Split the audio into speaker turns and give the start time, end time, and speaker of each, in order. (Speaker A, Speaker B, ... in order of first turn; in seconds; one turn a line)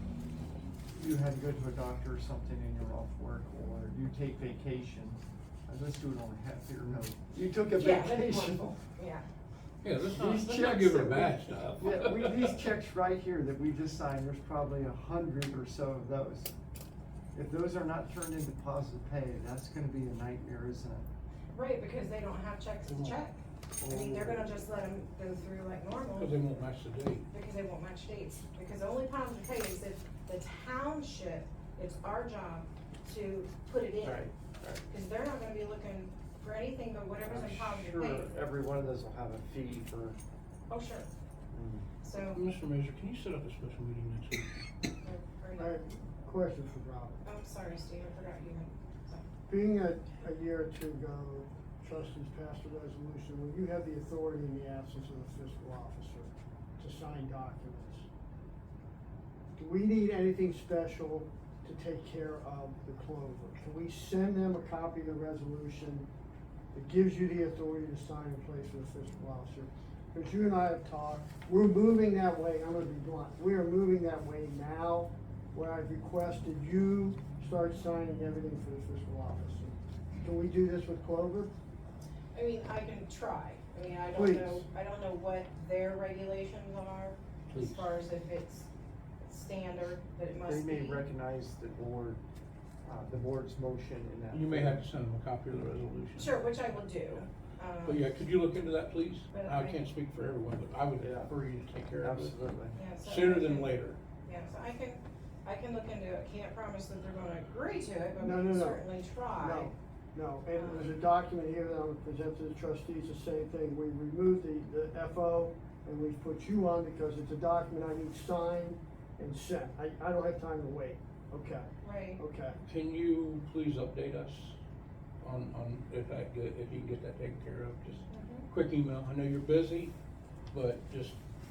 Speaker A: 0.9-8.7
Speaker B: 7.7-9.2
Speaker C: 9.8-12.7
Speaker A: 10.1-16.5
Speaker A: 17.3-21.1
Speaker B: 21.5-26.4
Speaker C: 22.9-23.1
Speaker A: 23.8-24.5
Speaker C: 26.1-27.3
Speaker B: 27.3-34.2
Speaker A: 34.0-34.8
Speaker B: 34.9-38.3
Speaker A: 37.2-40.2
Speaker B: 40.7-41.1
Speaker A: 41.5-41.9
Speaker B: 42.0-42.4
Speaker C: 42.3-44.5
Speaker B: 45.0-45.8
Speaker D: 45.5-47.2
Speaker B: 47.2-49.2
Speaker D: 49.5-58.1
Speaker D: 59.5-66.1
Speaker D: 66.7-81.5
Speaker B: 82.3-88.7
Speaker D: 84.1-84.7
Speaker C: 87.5-87.8
Speaker B: 89.2-91.0
Speaker A: 90.4-92.2
Speaker A: 92.8-94.8
Speaker C: 94.3-96.5
Speaker B: 96.2-98.1
Speaker C: 97.8-104.0
Speaker B: 99.3-99.8
Speaker A: 101.0-101.3
Speaker A: 102.0-102.7
Speaker B: 102.7-103.7
Speaker B: 104.2-109.7
Speaker D: 108.2-108.8
Speaker D: 109.3-122.6
Speaker B: 110.5-110.9
Speaker B: 121.8-122.2
Speaker C: 122.7-124.6
Speaker C: 125.2-129.9
Speaker B: 128.1-128.5
Speaker C: 130.5-131.2